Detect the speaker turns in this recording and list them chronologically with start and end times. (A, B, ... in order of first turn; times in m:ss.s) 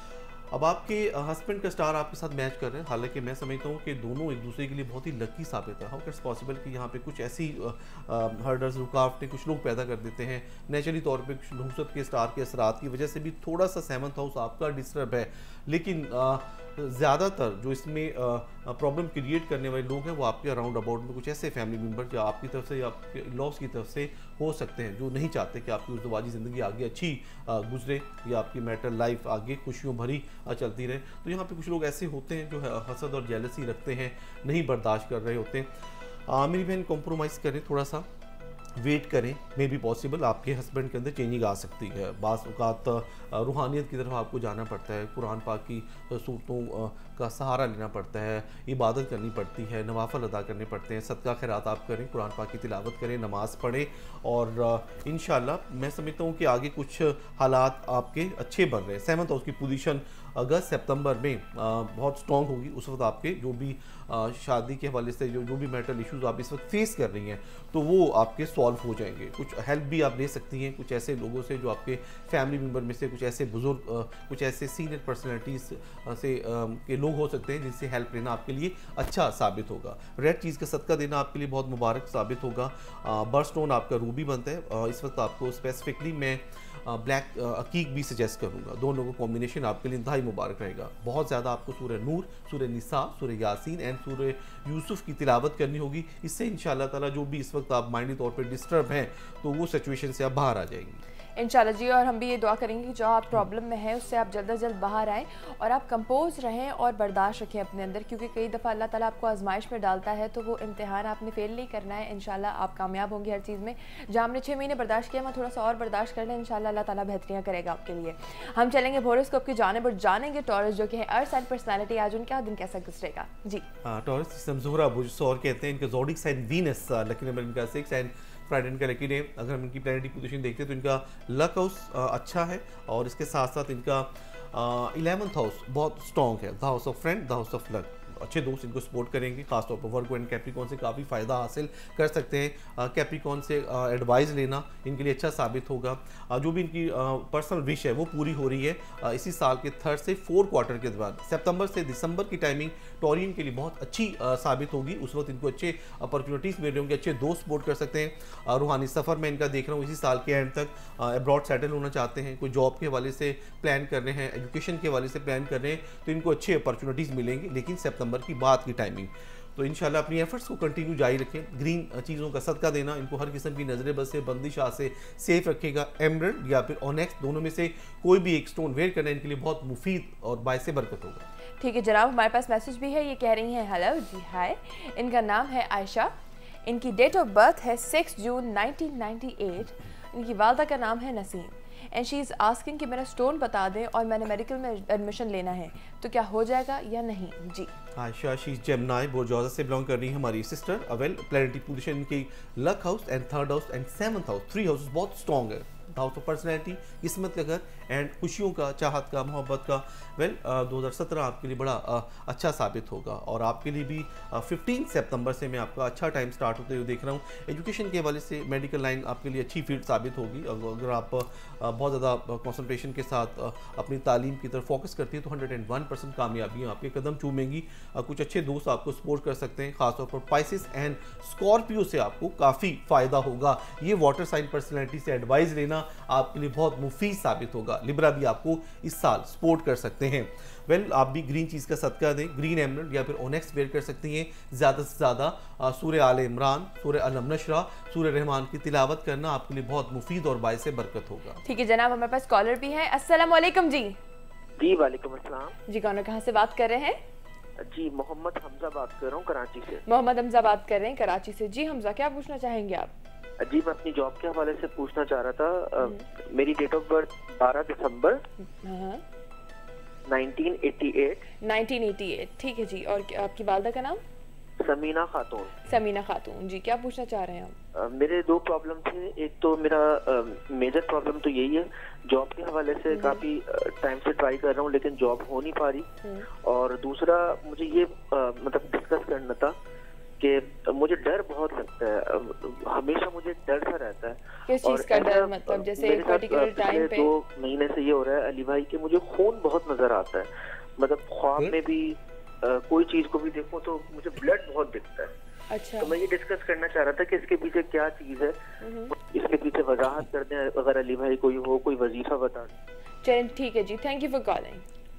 0:00.5-0:35.7 A
0:36.2-0:38.1 A
0:38.8-1:41.0 A
1:41.4-2:03.6 B
2:03.8-3:01.3 A
3:01.6-3:06.1 B
3:06.6-3:17.7 B
3:18.0-4:11.4 A
4:11.4-4:14.0 B
4:14.6-4:15.6 C
4:15.7-4:17.0 B
4:17.6-4:19.8 C
4:19.9-4:22.9 B
4:23.4-4:28.2 C
4:28.6-4:29.0 B
4:30.1-4:31.2 C
4:31.4-4:34.0 B
4:34.6-4:35.6 C
4:35.6-4:37.6 B
4:37.7-4:49.5 C
4:42.9-4:43.2 B
4:50.2-5:05.1 C
4:54.5-4:57.1 B
5:05.5-5:05.9 B
5:05.8-5:08.3 C
5:08.6-5:08.9 B
5:08.9-5:12.5 C
5:13.0-5:14.6 B